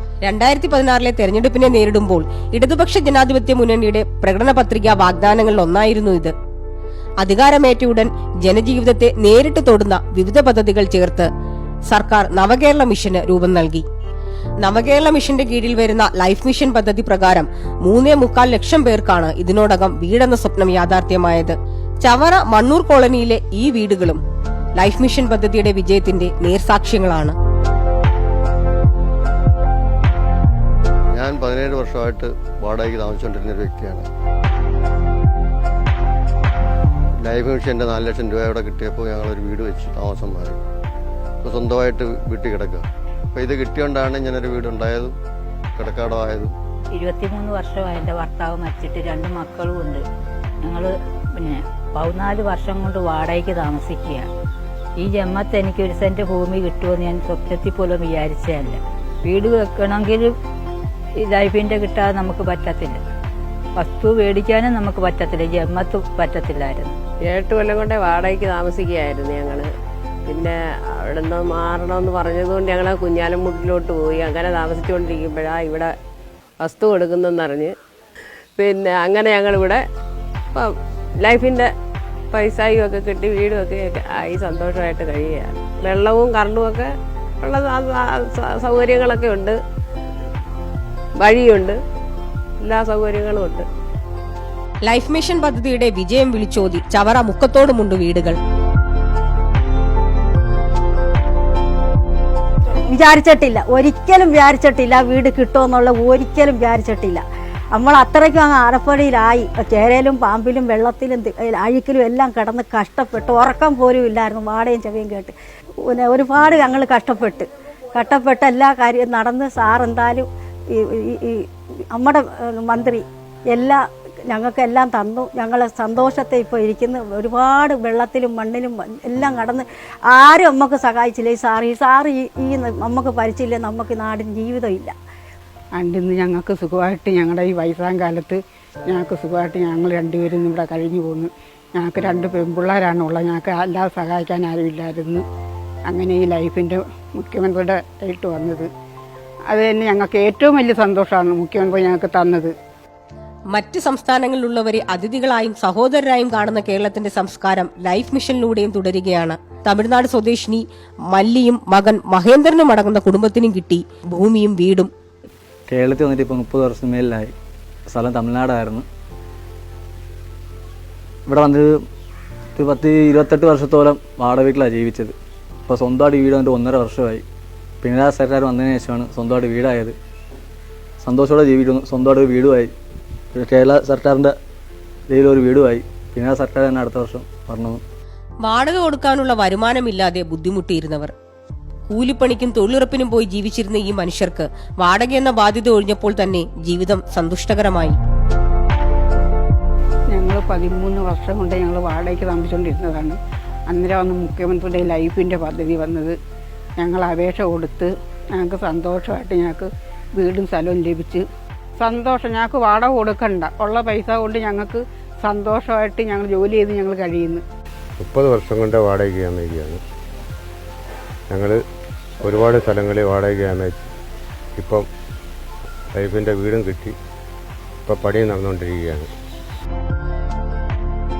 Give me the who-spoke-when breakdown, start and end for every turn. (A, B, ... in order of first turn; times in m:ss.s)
0:00.2-0:06.3 A
0:07.2-0:11.3 A
0:11.9-0:13.8 A
0:14.6-0:24.2 A
0:24.8-0:27.3 A
0:31.1-0:34.1 B
0:37.2-0:40.6 B
0:41.4-0:45.1 B
0:45.8-0:46.5 B
0:46.9-0:50.0 C
0:50.6-0:54.3 C
0:55.0-1:00.3 C
1:01.2-1:03.0 C
1:03.8-1:06.9 C
1:07.2-1:09.7 D
1:10.2-1:15.9 D
1:16.6-1:17.7 D
1:18.6-1:19.8 D
1:20.5-1:21.7 D
1:22.3-1:29.6 D
1:31.2-1:31.8 D
1:32.6-1:33.7 D
1:34.8-1:38.4 A
1:42.9-1:47.2 E
1:47.7-1:55.3 E
1:55.8-2:14.9 E
2:15.8-2:18.4 F
2:18.9-2:25.2 F
2:25.9-2:28.7 F
2:29.5-2:32.5 F
2:33.5-2:44.9 A
2:45.7-2:47.3 G
2:47.9-2:48.8 G
2:51.3-2:51.7 G
2:52.6-2:55.1 G
2:55.7-2:57.2 G
2:57.8-2:59.9 G
3:01.0-3:02.7 G
3:03.3-3:04.3 G
3:05.1-3:07.8 G
3:08.4-3:11.1 A
3:11.9-3:18.0 A
3:20.1-3:23.1 F
3:23.7-3:26.1 F
3:26.8-3:31.2 F
3:31.8-3:37.4 F
3:38.0-3:39.8 H
3:41.3-3:41.6 H
3:42.2-3:43.9 H
3:44.6-3:44.8 H
3:45.9-3:46.9 H
3:47.8-3:49.1 H